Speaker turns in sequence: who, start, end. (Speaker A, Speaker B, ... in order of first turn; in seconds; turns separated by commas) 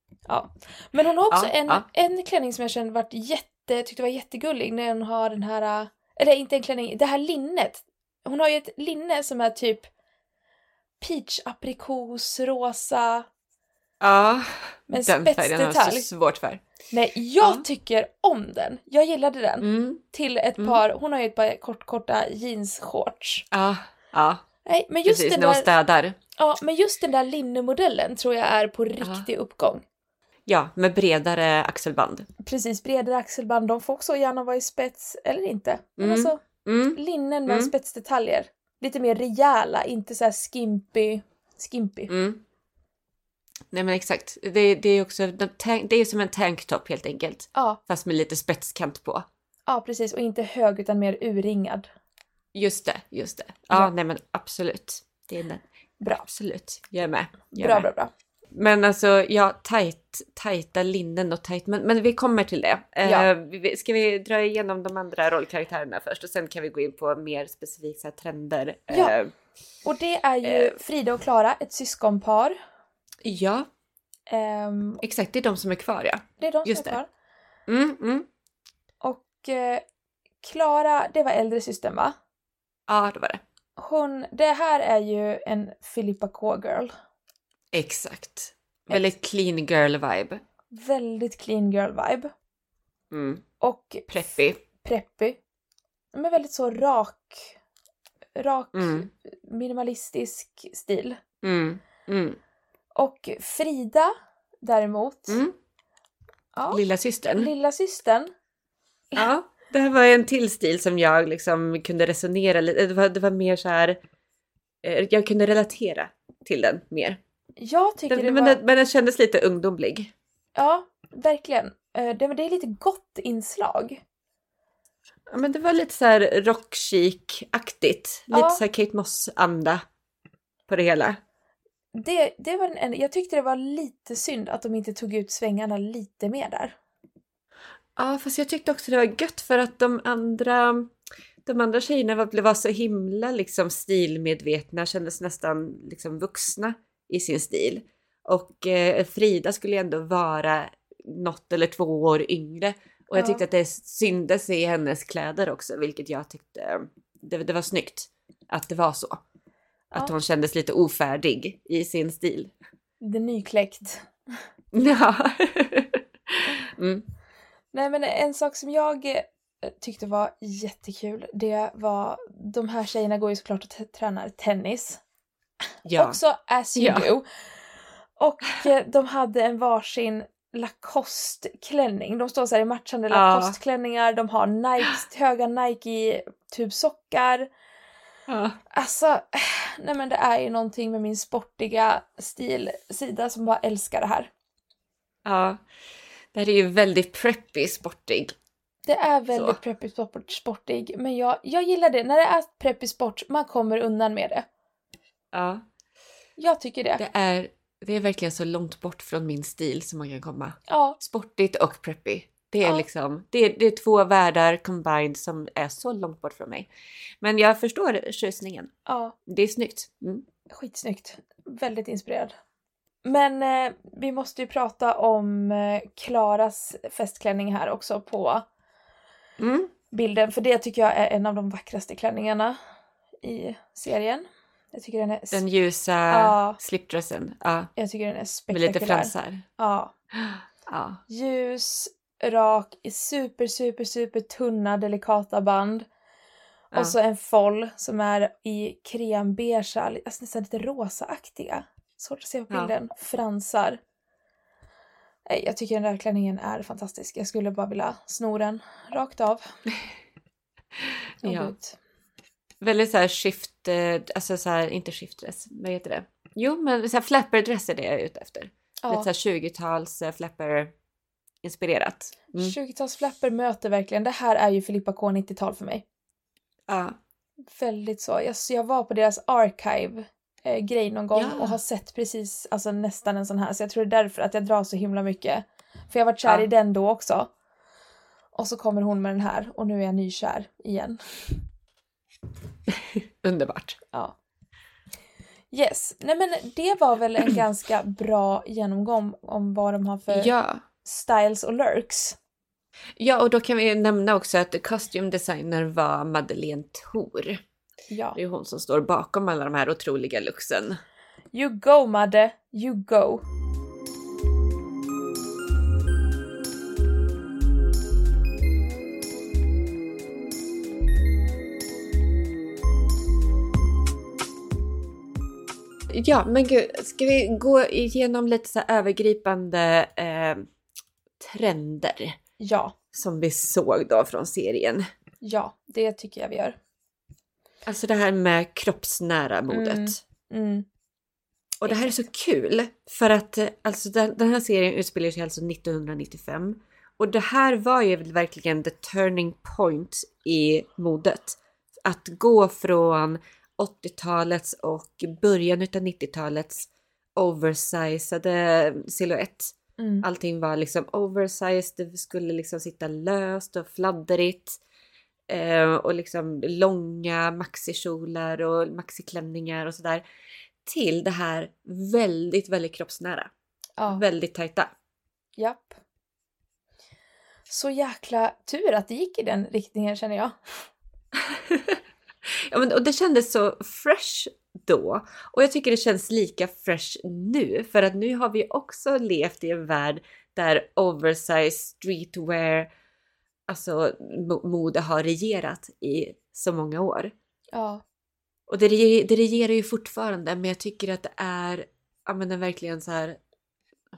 Speaker A: 0.3-9.9, Speaker B: 1.3-1.9, Speaker A: 11.0-13.3, Speaker B: 14.0-16.6, Speaker A: 14.9-16.1, Speaker A: 16.9-23.4, Speaker B: 19.6-20.0, Speaker B: 23.5-24.4, Speaker A: 24.6-25.7, Speaker B: 25.1-26.2, Speaker A: 26.4-29.8, Speaker B: 29.0-29.3, Speaker B: 30.5-32.3, Speaker A: 32.4-36.4, Speaker B: 36.0-37.7, Speaker A: 36.9-42.1, Speaker B: 42.1-42.4, Speaker B: 43.7-49.3, Speaker A: 47.5-47.8, Speaker A: 49.7-51.9, Speaker B: 52.5-57.9, Speaker A: 57.5-58.1, Speaker B: 58.5-69.3, Speaker A: 63.0-63.3, Speaker A: 68.9-69.2, Speaker A: 69.8-72.6, Speaker B: 70.4-70.8, Speaker B: 73.2-73.7, Speaker A: 74.3-75.0, Speaker B: 75.0-77.0, Speaker A: 76.4-77.1, Speaker B: 77.7-78.3, Speaker A: 79.0-79.8, Speaker A: 80.4-82.2, Speaker B: 82.9-83.4, Speaker A: 83.8-86.9, Speaker B: 87.7-90.4, Speaker A: 90.7-92.3, Speaker B: 93.1-93.4, Speaker A: 93.6-94.1, Speaker B: 94.1-94.6, Speaker A: 94.8-95.4, Speaker A: 96.1-97.5, Speaker A: 98.3-101.2, Speaker B: 98.7-99.1, Speaker B: 101.4-102.4, Speaker A: 103.0-104.1, Speaker A: 104.6-105.4, Speaker B: 105.3-105.5, Speaker A: 106.5-108.3, Speaker B: 106.7-107.5, Speaker B: 109.2-114.0, Speaker B: 114.8-117.2, Speaker A: 117.6-118.6, Speaker B: 118.1-120.1, Speaker A: 120.6-124.0, Speaker B: 125.3-129.8, Speaker A: 128.3-128.6, Speaker B: 130.7-131.2, Speaker A: 131.9-136.8, Speaker B: 138.0-140.9, Speaker B: 141.4-159.2, Speaker A: 153.2-153.4, Speaker B: 159.9-162.5, Speaker A: 163.0-164.1, Speaker B: 164.7-167.1, Speaker A: 167.7-175.0, Speaker B: 175.8-176.2, Speaker A: 176.0-177.3, Speaker B: 176.8-177.1, Speaker A: 178.2-187.5, Speaker B: 183.1-183.6, Speaker B: 188.3-188.6, Speaker A: 188.7-194.3, Speaker B: 195.2-195.6, Speaker B: 196.3-198.3, Speaker A: 198.9-204.5, Speaker B: 199.3-199.6, Speaker B: 205.3-205.6, Speaker A: 206.4-207.0, Speaker B: 207.0-216.7, Speaker A: 210.7-211.0, Speaker B: 217.2-218.7, Speaker A: 218.9-219.2, Speaker B: 219.3-220.2, Speaker A: 220.5-222.3, Speaker A: 223.0-228.4, Speaker B: 229.4-229.7, Speaker A: 229.9-232.6, Speaker A: 233.2-235.4, Speaker B: 235.3-237.7, Speaker A: 236.1-236.6, Speaker A: 237.8-239.9, Speaker B: 238.5-239.4, Speaker B: 240.2-241.0, Speaker A: 241.1-245.9, Speaker A: 246.7-253.8, Speaker A: 255.3-259.4, Speaker B: 261.2-261.5, Speaker A: 261.2-261.8, Speaker B: 262.6-270.7, Speaker B: 271.4-272.5, Speaker A: 272.4-275.8, Speaker B: 276.7-276.9, Speaker A: 277.5-287.3, Speaker B: 281.1-281.6, Speaker A: 288.3-291.4, Speaker B: 292.7-293.8, Speaker A: 295.5-300.3, Speaker B: 300.1-300.6, Speaker A: 300.9-302.2, Speaker B: 303.0-307.4, Speaker A: 307.9-308.2, Speaker B: 308.1-310.8, Speaker A: 311.3-313.2, Speaker B: 325.9-330.5, Speaker B: 331.2-332.2, Speaker A: 332.4-332.8, Speaker B: 332.9-334.9, Speaker A: 335.2-336.6, Speaker B: 337.7-340.0, Speaker A: 339.5-340.7, Speaker B: 341.6-364.6, Speaker A: 341.7-342.0, Speaker A: 359.8-360.1, Speaker B: 365.3-370.0, Speaker B: 370.6-373.3, Speaker A: 373.8-374.1, Speaker B: 373.9-374.7, Speaker A: 375.4-375.8, Speaker A: 377.5-380.4, Speaker B: 381.2-381.8, Speaker B: 382.5-392.7, Speaker B: 393.5-397.1, Speaker A: 397.5-397.8, Speaker B: 398.5-403.2